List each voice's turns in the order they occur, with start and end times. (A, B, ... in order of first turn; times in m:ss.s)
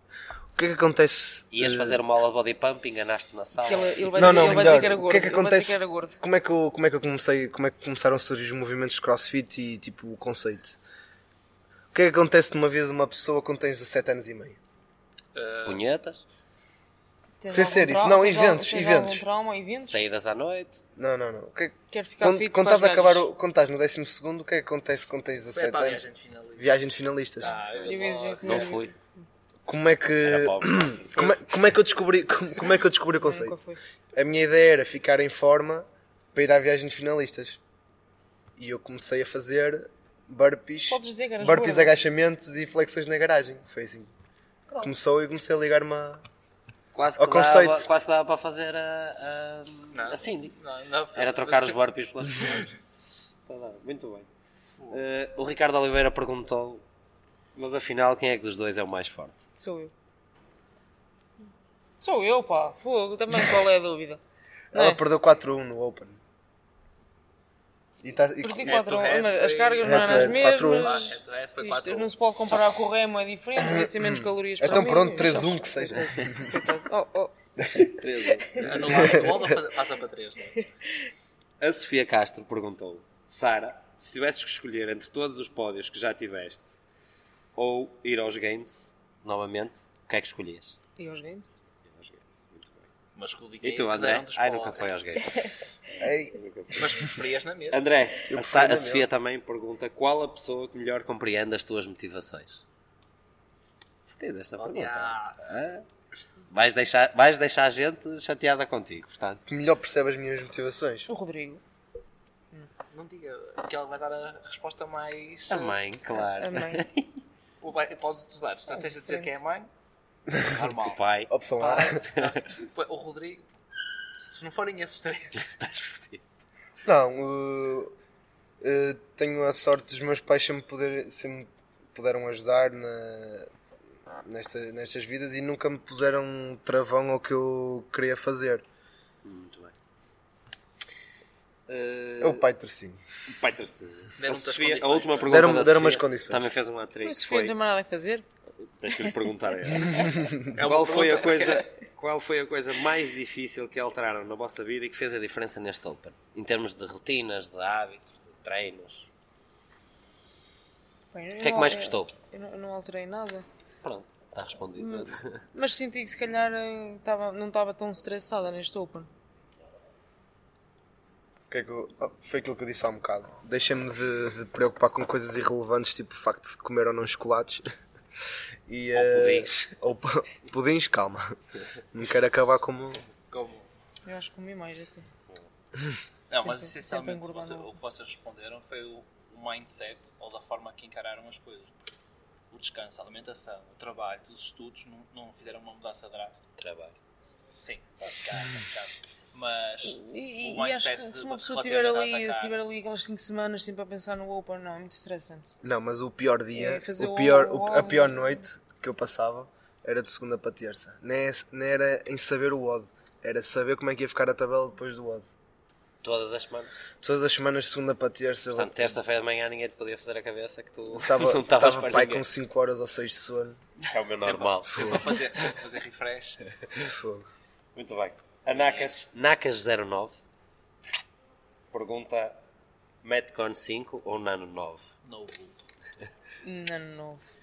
0:00.6-0:02.0 A
0:01.5-0:05.0 B
0:03.6-0:06.2 C
0:04.1-0:10.8 A
0:11.9-0:14.6 A
0:15.3-0:15.8 D
0:15.6-0:16.2 B
0:17.4-0:20.0 C
0:17.5-0:19.2 A
0:19.8-0:20.8 B
0:21.0-0:26.0 A
0:21.9-0:23.2 C
0:25.5-0:26.7 D
0:26.6-0:27.6 A
0:27.4-0:28.8 D
0:27.8-0:28.9 C
0:28.4-0:28.9 B
0:29.6-0:33.6 A
0:30.2-0:31.1 B
0:33.2-0:33.8 C
0:34.1-0:37.6 A
0:38.6-0:44.1 A
0:40.9-0:41.9 C
0:44.8-0:46.2 A
0:46.9-0:50.5 B
0:47.2-0:47.9 A
0:49.9-0:51.8 D
0:51.1-0:52.7 B
0:53.5-0:54.3 B
0:54.9-0:56.8 B
0:57.5-0:59.4 B
0:59.6-0:59.9 C
1:02.0-1:04.2 C
1:04.7-1:06.2 A
1:04.7-1:05.0 C
1:08.0-1:09.0 A
1:08.4-1:17.3 C
1:08.6-1:12.2 D
1:09.8-1:11.1 A
1:13.6-1:16.7 A
1:17.6-1:17.9 A
1:18.0-1:19.2 B
1:18.6-1:20.7 D
1:18.8-1:19.5 A
1:21.6-1:26.7 B
1:27.6-1:30.8 B
1:31.0-1:31.6 C
1:31.8-1:32.9 B
1:33.2-1:35.0 D
1:33.6-1:35.5 B
1:36.0-1:36.4 A
1:36.3-1:37.1 B
1:36.7-1:37.8 D
1:37.7-1:42.6 B
1:38.3-1:39.1 A
1:44.1-1:45.8 B
1:44.6-1:45.4 D
1:46.5-1:49.4 B
1:49.5-1:51.1 A
1:51.1-1:51.6 C
1:52.9-1:55.8 D
1:55.5-1:57.2 B
1:56.2-1:56.8 C
1:57.6-1:59.7 D
1:58.8-1:59.4 C
2:00.3-2:00.6 A
2:00.4-2:01.0 D
2:00.9-2:01.3 B
2:01.3-2:02.0 A
2:01.6-2:03.4 D
2:02.0-2:02.4 B
2:04.2-2:05.5 D
2:05.4-2:06.2 B
2:06.8-2:07.9 A
2:08.6-2:13.5 A
2:14.2-2:18.6 A
2:19.2-2:19.7 B
2:21.7-2:22.4 B
2:22.2-2:23.0 A
2:23.3-2:27.6 B
2:24.2-2:25.8 D
2:25.3-2:26.5 A
2:27.0-2:28.2 C
2:28.6-2:39.1 B
2:29.9-2:30.5 A
2:30.5-2:31.7 D
2:41.1-2:43.4 C
2:41.4-2:42.1 B
2:43.8-2:45.4 B
2:44.8-2:49.1 C
2:51.5-2:57.6 A
2:58.7-3:01.3 A
2:58.9-2:59.5 B
3:01.9-3:03.0 A
3:03.3-3:03.7 D
3:04.0-3:05.0 C
3:06.3-3:11.8 D
3:06.4-3:07.8 C
3:12.5-3:16.4 D
3:16.6-3:16.9 B
3:17.6-3:22.6 D
3:19.8-3:25.5 C
3:25.6-3:35.3 A
3:26.5-3:28.3 C
3:36.0-3:36.7 B
3:37.0-3:39.0 A
3:38.5-3:42.2 B
3:40.9-3:43.6 A
3:43.9-3:45.2 B
3:44.2-3:46.4 D
3:46.8-3:47.3 A
3:47.8-3:50.2 B
3:48.5-3:48.9 D
3:51.7-3:52.4 B
3:53.0-3:54.9 B
3:55.0-3:55.5 D
3:56.4-3:57.2 C